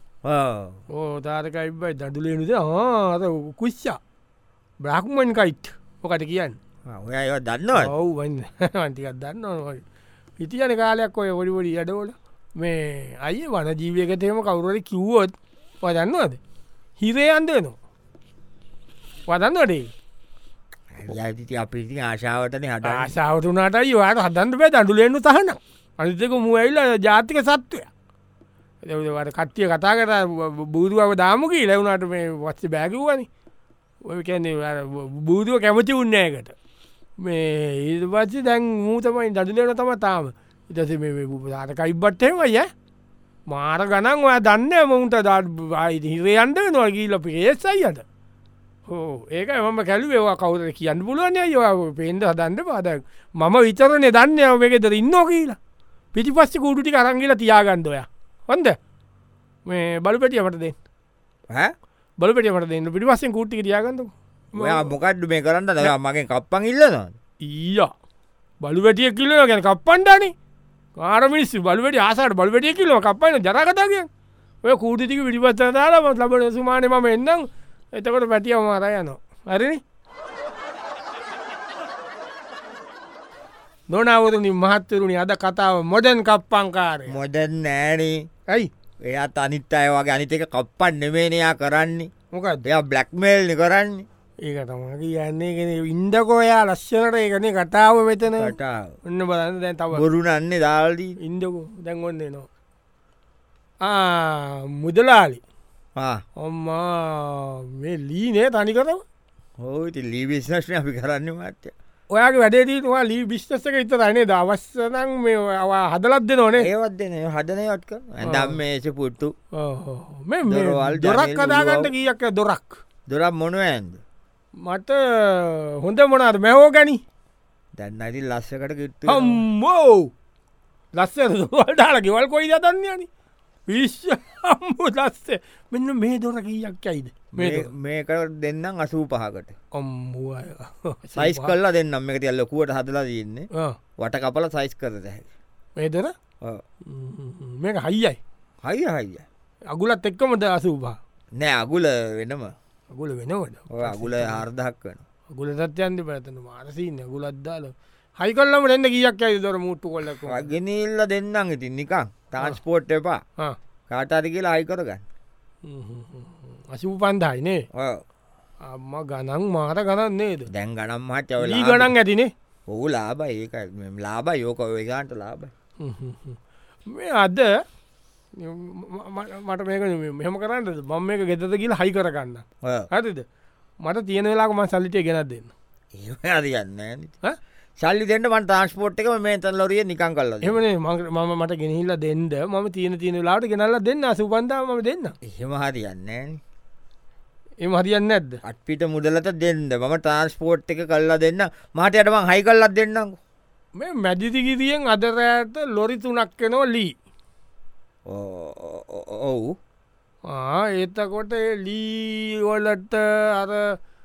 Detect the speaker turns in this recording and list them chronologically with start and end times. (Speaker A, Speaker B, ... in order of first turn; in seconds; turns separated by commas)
Speaker A: 0.2-0.8, Speaker B: 0.9-4.0, Speaker B: 4.8-6.6, Speaker A: 6.8-7.9, Speaker B: 7.7-9.8, Speaker B: 10.4-16.4, Speaker B: 17.0-17.8, Speaker B: 19.3-19.9, Speaker A: 20.9-23.1, Speaker B: 22.8-27.9, Speaker B: 28.8-33.3, Speaker B: 34.0-36.5, Speaker B: 37.2-42.7, Speaker B: 43.5-48.0, Speaker B: 48.9-55.6, Speaker B: 56.1-58.8, Speaker B: 59.7-60.7, Speaker B: 62.2-64.9, Speaker A: 64.5-67.2, Speaker B: 67.4-67.9, Speaker B: 68.6-70.3, Speaker B: 71.0-74.1, Speaker B: 74.6-79.8, Speaker B: 83.9-87.2, Speaker A: 87.1-88.2, Speaker A: 89.0-92.1, Speaker B: 92.3-92.6, Speaker A: 92.6-94.1, Speaker B: 94.4-98.5, Speaker A: 98.3-98.9, Speaker B: 99.0-100.0, Speaker A: 99.9-101.2, Speaker B: 101.2-102.5, Speaker B: 103.8-105.4, Speaker A: 106.0-106.2, Speaker B: 106.4-109.0, Speaker A: 109.6-111.7, Speaker B: 112.1-116.7, Speaker A: 116.6-119.3, Speaker B: 118.2-118.6, Speaker B: 119.5-122.8, Speaker A: 120.5-121.9, Speaker A: 123.1-124.0, Speaker B: 124.6-127.0, Speaker A: 127.8-129.4, Speaker B: 129.1-130.1, Speaker B: 130.9-133.1, Speaker B: 133.7-137.7, Speaker A: 137.3-139.5, Speaker B: 139.7-141.5, Speaker A: 141.1-145.3, Speaker B: 145.8-146.1, Speaker B: 146.8-148.2, Speaker A: 148.6-149.2, Speaker B: 149.7-151.0, Speaker A: 151.3-152.5, Speaker B: 152.9-154.4, Speaker A: 153.7-155.0, Speaker B: 155.3-160.5, Speaker A: 160.2-163.2, Speaker A: 163.9-165.0, Speaker B: 165.6-167.7, Speaker A: 167.7-168.0, Speaker B: 168.6-170.5, Speaker A: 170.5-171.9, Speaker B: 171.4-172.3, Speaker A: 172.7-175.5, Speaker B: 175.8-177.5, Speaker B: 178.4-183.2, Speaker A: 182.6-182.9, Speaker B: 183.8-185.5, Speaker A: 185.9-187.1, Speaker A: 187.8-190.6, Speaker B: 190.4-195.1, Speaker A: 195.2-196.4, Speaker B: 197.6-198.4, Speaker A: 198.4-203.2, Speaker B: 203.8-206.9, Speaker A: 208.1-209.6, Speaker B: 210.3-213.8